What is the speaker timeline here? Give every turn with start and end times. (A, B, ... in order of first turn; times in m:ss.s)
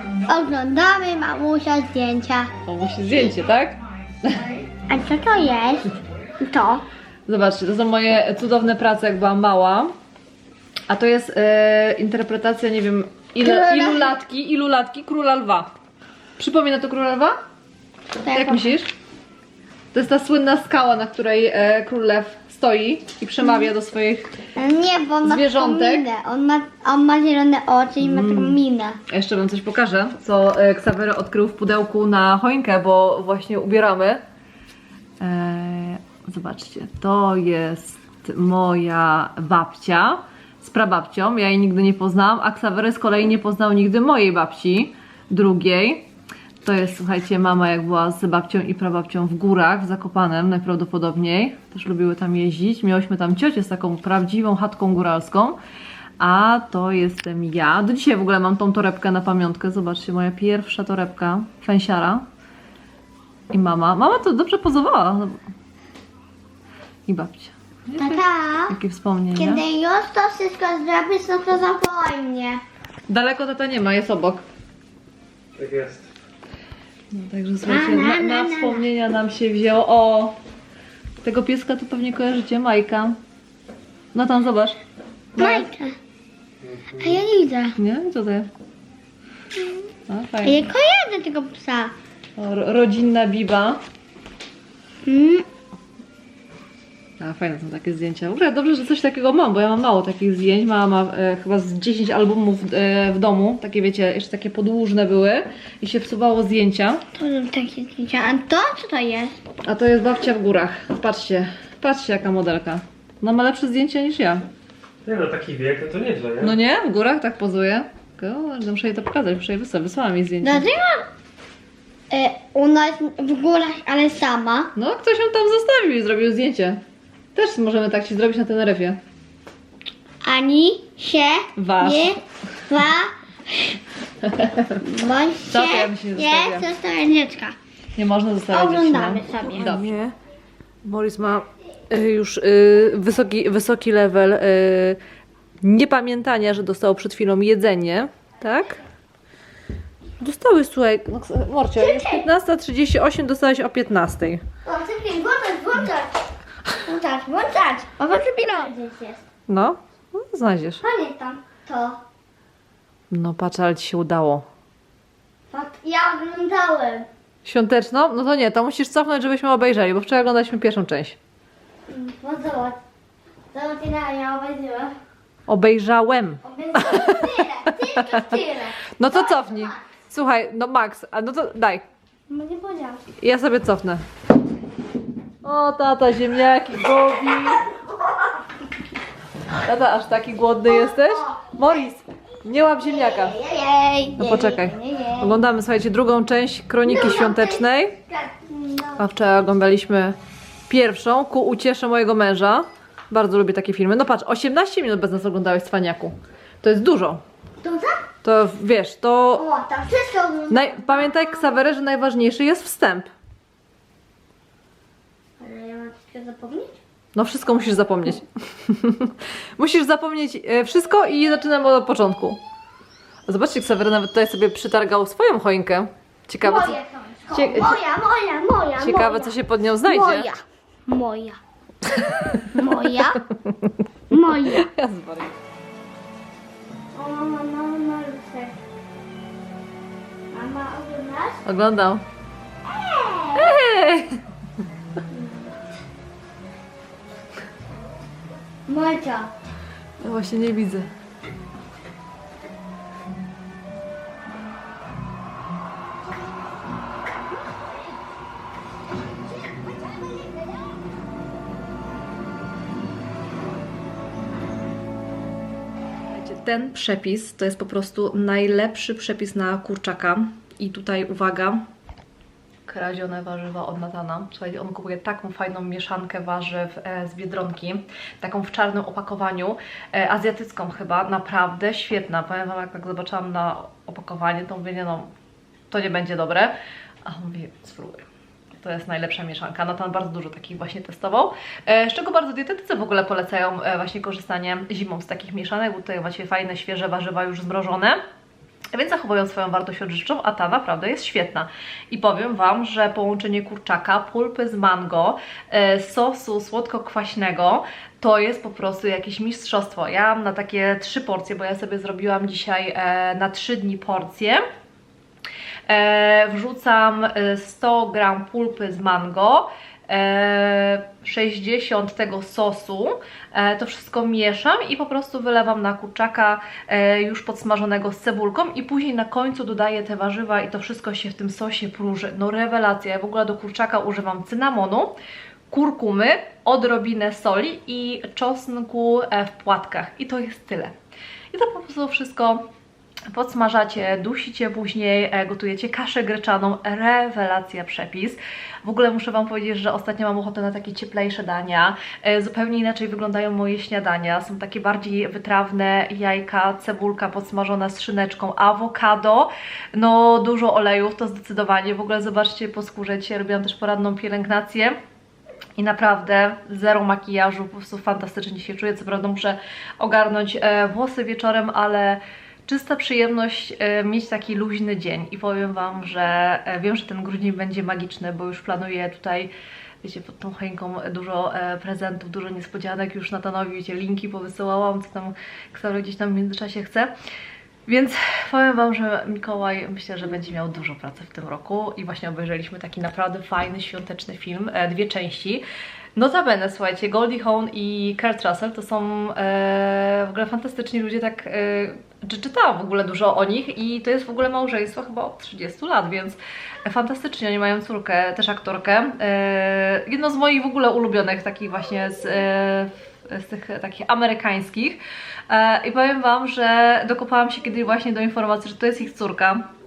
0:00.2-0:02.5 A
0:02.6-0:04.4 B
0:04.9-0:05.9 A
0:06.4-0:06.8 A
0:07.3-0:09.9 B
0:10.9-0:15.7 B
0:13.4-0:14.1 A
0:16.4-0:17.4 B
0:18.2-0:18.7 A
0:18.3-0:18.9 B
0:19.9-0:24.3 B
0:24.6-0:29.0 A
0:25.2-0:26.1 B
0:28.0-0:34.2 B
0:35.2-0:46.0 B
0:46.6-0:55.6 B
0:56.2-1:02.2 B
1:03.5-1:05.4 B
1:07.1-1:09.6 B
1:08.0-1:08.8 A
1:09.3-1:12.6 A
1:13.1-1:14.4 B
1:15.6-1:16.1 C
1:17.1-1:20.3 B
1:17.6-1:18.8 A
1:21.2-1:23.2 B
1:24.1-1:24.8 B
1:25.4-1:25.7 B
1:25.4-1:26.0 A
1:26.6-1:27.2 C
1:27.0-1:27.8 A
1:27.8-1:28.5 B
1:30.1-1:30.7 B
1:30.4-1:31.9 A
1:32.4-1:33.8 B
1:35.0-1:35.4 A
1:37.2-1:47.0 B
1:47.1-1:49.3 A
1:49.6-1:54.4 B
1:55.0-1:56.6 C
1:56.4-2:00.7 B
2:00.4-2:01.1 A
2:02.1-2:04.7 A
2:04.7-2:06.8 B
2:07.3-2:09.0 B
2:10.2-2:13.7 A
2:11.6-2:12.2 B
2:14.2-2:14.8 B
2:14.8-2:17.6 A
2:15.5-2:16.7 B
2:18.0-2:20.1 B
2:18.5-2:19.9 A
2:20.8-2:25.0 B
2:25.6-2:28.8 B
2:30.2-2:34.4 B
2:31.8-2:32.2 A
2:34.6-2:36.2 A
2:36.8-2:39.2 A
2:39.5-2:40.8 B
2:40.8-2:42.0 A
2:43.1-2:44.4 B
2:45.5-2:47.1 A
2:47.4-2:51.2 B
2:51.9-2:52.8 A
2:53.5-2:55.0 A
2:55.5-3:01.8 B
2:56.4-2:59.8 A
3:02.3-3:03.0 A
3:03.2-3:04.0 B
3:05.4-3:07.7 B
3:09.6-3:13.4 B
3:10.7-3:11.4 A
3:12.8-3:15.4 A
3:14.2-3:18.0 B
3:16.8-3:19.0 A
3:19.0-3:20.2 B
3:20.7-3:27.2 B
3:27.6-3:28.0 A
3:28.2-3:29.4 B
3:29.4-3:31.5 A
3:30.5-3:33.1 B
3:35.4-3:36.8 A
3:37.2-3:42.4 B
3:43.3-3:46.8 B
3:46.4-3:51.4 A
3:47.3-3:47.8 B
3:48.8-3:50.3 B
3:52.0-3:52.5 B
3:52.5-3:53.2 A
3:53.4-3:53.7 B
3:54.1-3:54.7 A
3:54.4-3:55.3 B
3:56.9-3:58.6 A
4:00.3-4:01.4 A
4:01.4-4:02.0 B
4:02.6-4:03.5 A
4:03.3-4:04.2 B
4:05.1-4:05.5 A
4:08.7-4:09.3 A
4:10.0-4:10.9 B
4:26.1-4:31.6 B
4:32.7-4:45.1 B
4:45.7-4:46.5 B
4:47.0-4:48.0 B
4:48.6-4:58.0 B
4:58.7-5:14.4 B
5:15.7-5:34.9 B
5:35.5-5:40.7 B
5:41.3-5:42.4 B
5:43.1-6:04.7 B
6:05.6-6:19.3 B
6:19.8-6:26.9 B
6:27.7-6:35.4 B
6:36.0-6:59.4 B